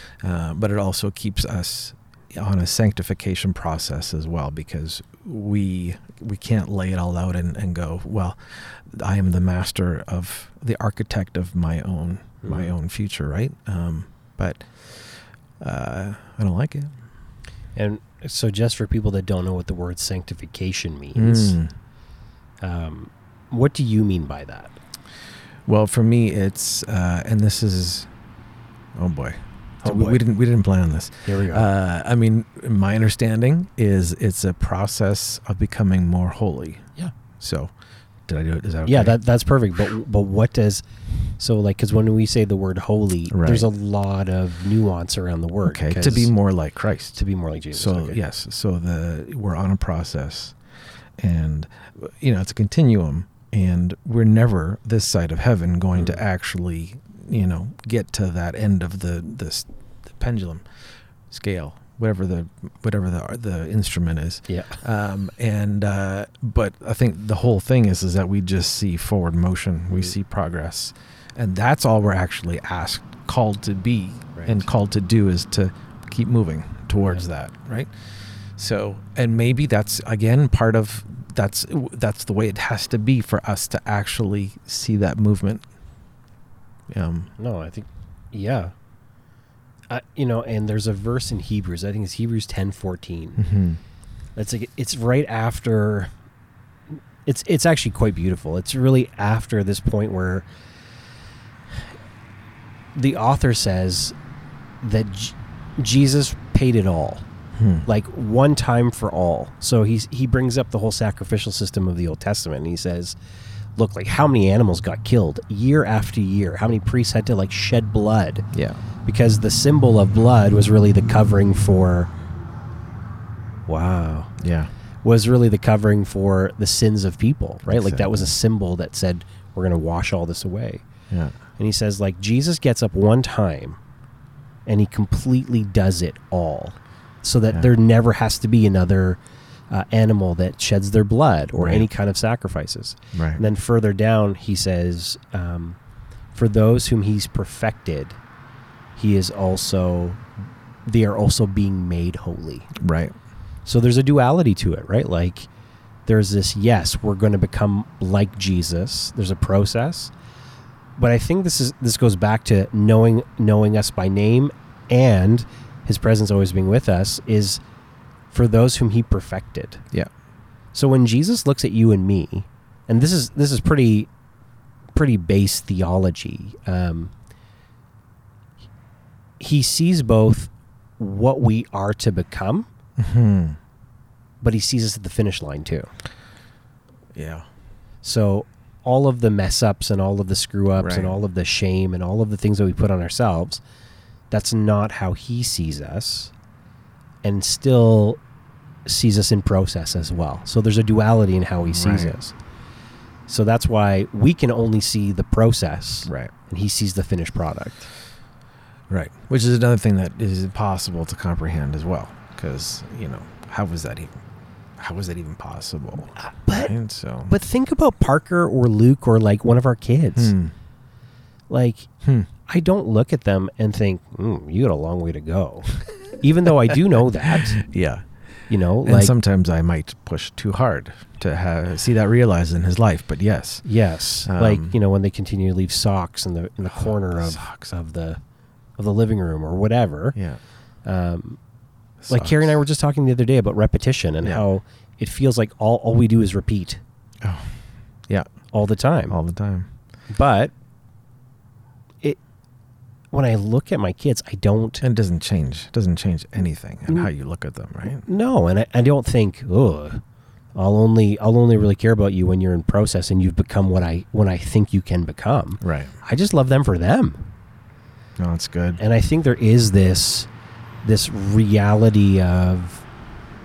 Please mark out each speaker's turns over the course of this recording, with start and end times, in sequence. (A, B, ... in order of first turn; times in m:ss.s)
0:00.2-0:16.9 A
0:12.4-0:12.7 B
0:17.8-0:21.6 B
0:21.2-0:21.7 A
0:22.6-0:24.8 B
0:25.6-0:28.1 A
0:29.0-0:37.7 A
0:29.8-0:30.2 B
0:31.2-0:31.7 B
0:38.3-0:39.2 A
0:38.8-0:40.8 B
0:41.4-0:46.3 B
0:43.3-0:43.7 A
0:45.6-0:47.2 A
0:47.1-0:48.2 B
0:47.7-0:50.5 A
0:51.2-1:00.6 A
0:55.9-0:56.2 B
1:01.3-1:17.9 A
1:04.5-1:04.8 B
1:14.3-1:14.6 B
1:18.6-1:25.6 A
1:26.9-1:27.3 A
1:27.4-1:28.7 B
1:29.9-1:33.4 B
1:33.4-1:33.8 A
1:34.4-1:36.1 B
1:37.2-1:40.5 B
1:42.9-1:44.1 B
1:44.8-1:47.2 B
1:47.6-1:47.8 A
1:47.8-1:53.2 B
1:53.8-1:58.4 B
1:58.5-1:58.8 A
1:59.0-2:02.1 B
2:03.7-2:04.3 B
2:04.4-2:04.7 A
2:05.0-2:10.8 B
2:07.6-2:08.3 A
2:11.1-2:11.4 A
2:11.6-2:13.8 B
2:14.6-2:25.8 B
2:21.6-2:21.9 A
2:23.1-2:23.4 A
2:26.3-2:28.2 B
2:29.0-2:30.2 B
2:30.9-2:32.7 B
2:32.8-2:33.1 A
2:33.6-2:35.5 B
2:36.1-2:40.1 B
2:41.0-2:47.6 B
2:48.3-2:49.8 B
2:50.7-2:54.1 B
2:54.9-2:57.1 B
2:59.4-3:02.7 B
3:03.0-3:03.6 A
3:04.4-3:05.9 B
3:07.1-3:07.4 A
3:08.0-3:13.6 B
3:10.8-3:11.2 A
3:14.3-3:16.3 B
3:17.2-3:18.2 B
3:18.8-3:22.3 B
3:21.6-3:22.1 A
3:23.3-3:27.9 B
3:26.0-3:26.3 A
3:28.9-3:34.2 A
3:34.8-3:37.3 A
3:36.2-3:36.7 B
3:37.3-3:40.3 B
3:40.1-3:40.5 A
3:41.5-3:41.9 B
3:42.0-3:42.3 A
3:42.5-3:47.6 B
3:47.3-3:48.0 A
3:48.5-3:49.1 B
3:48.8-3:53.6 A
3:53.6-3:58.2 B
3:54.2-3:54.7 A
3:56.7-3:57.7 A
3:58.8-4:00.2 B
4:00.8-4:01.4 B
4:02.0-4:02.5 A
4:02.1-4:06.8 B
4:07.2-4:07.5 A
4:08.5-4:09.2 B
4:09.1-4:09.7 A
4:10.1-4:10.5 B
4:13.1-4:14.8 B
4:14.8-4:18.0 A
4:18.0-4:20.0 B
4:20.5-4:27.3 B
4:25.6-4:25.9 A
4:28.2-4:28.8 A
4:28.8-4:30.3 B
4:30.8-4:32.8 B